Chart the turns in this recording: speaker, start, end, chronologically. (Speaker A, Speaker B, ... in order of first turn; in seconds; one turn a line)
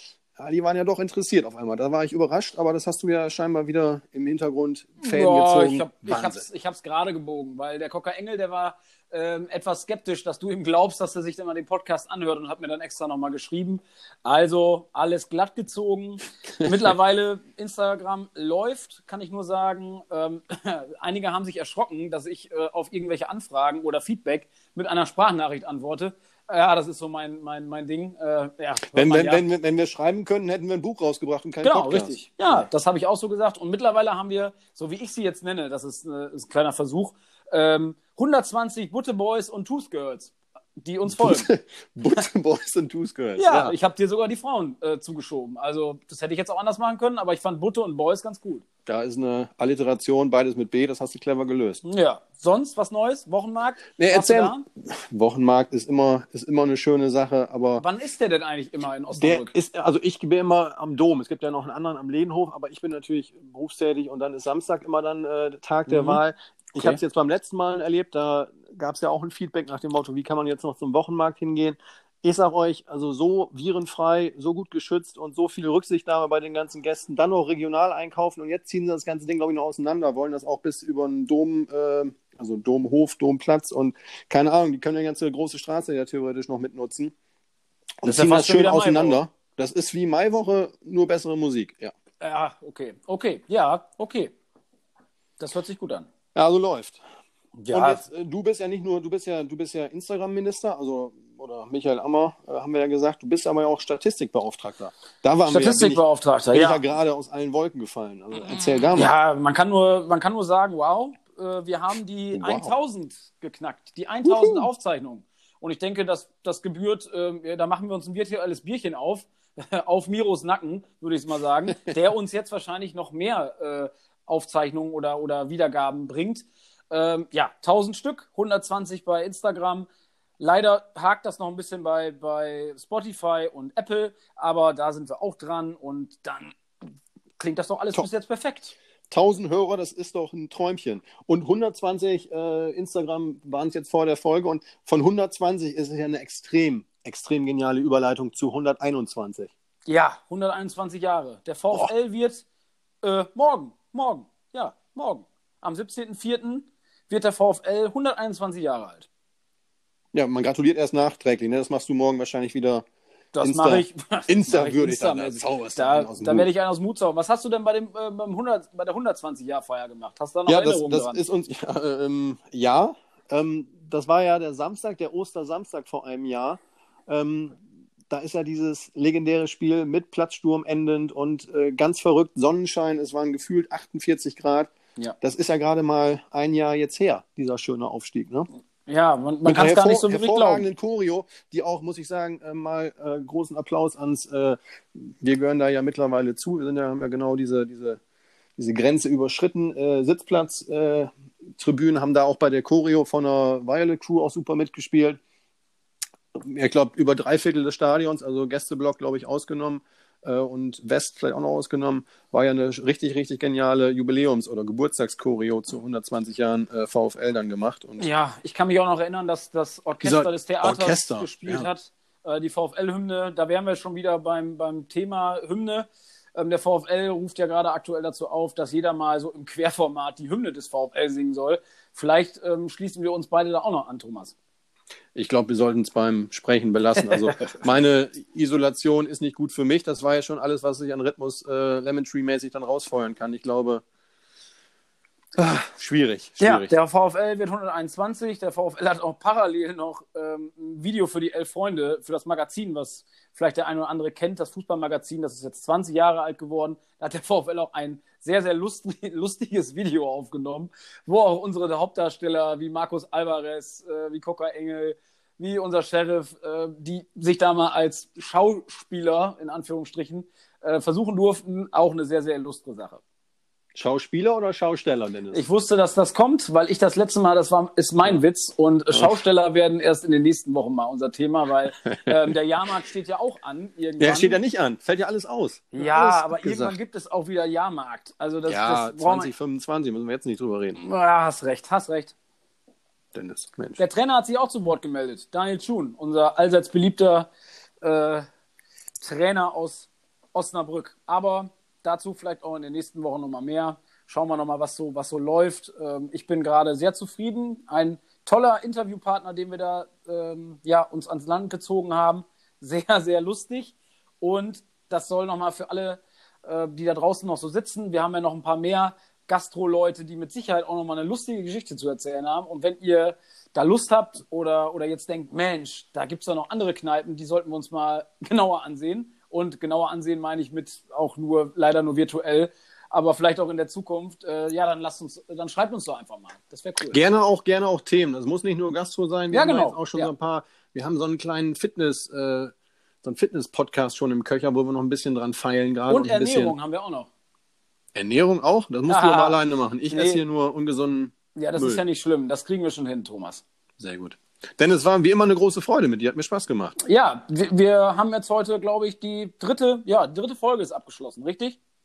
Speaker A: 0.4-6.5
Speaker B: 5.0-29.4
Speaker A: 28.9-32.7
Speaker B: 31.6-41.5
Speaker A: 41.1-43.7
Speaker B: 43.4-48.6
Speaker A: 48.9-51.8
Speaker B: 51.9-54.6
Speaker A: 54.0-57.8
Speaker B: 57.8-59.5
Speaker A: 59.2-87.1
Speaker B: 65.9-66.2
Speaker A: 88.0-91.9
Speaker B: 88.0-89.2
Speaker B: 92.2-94.3
Speaker B: 95.4-96.1
Speaker A: 96.3-97.0
Speaker B: 97.6-98.0
Speaker A: 97.7-109.1
Speaker B: 105.5-106.8
Speaker B: 108.9-129.9
Speaker A: 112.3-112.7
Speaker A: 114.2-114.7
Speaker B: 130.4-136.6
Speaker B: 137.4-138.8
Speaker A: 139.1-149.5
Speaker B: 149.9-152.4
Speaker B: 153.0-159.1
Speaker A: 160.1-162.9
Speaker B: 163.3-171.2
Speaker A: 163.4-166.5
Speaker A: 170.5-188.5
Speaker B: 188.9-190.7
Speaker A: 189.4-198.0
Speaker A: 198.6-205.2
Speaker A: 206.3-218.1
Speaker B: 218.0-234.3
Speaker A: 220.0-221.7
Speaker A: 235.2-243.8
Speaker B: 237.0-237.6
Speaker A: 245.4-246.7
Speaker B: 246.4-273.0
Speaker A: 273.8-275.4
Speaker B: 275.3-284.4
Speaker A: 284.0-286.8
Speaker B: 285.7-289.3
Speaker A: 288.5-290.8
Speaker B: 290.8-292.1
Speaker A: 293.1-293.8
Speaker B: 293.8-297.3
Speaker B: 297.8-298.3
Speaker B: 299.0-337.0
Speaker A: 336.9-346.6
Speaker B: 339.3-340.1
Speaker B: 345.9-347.1
Speaker A: 347.9-351.8
Speaker B: 348.9-349.4
Speaker B: 349.9-350.2
Speaker B: 351.4-353.4
Speaker A: 353.8-356.8
Speaker B: 356.8-361.6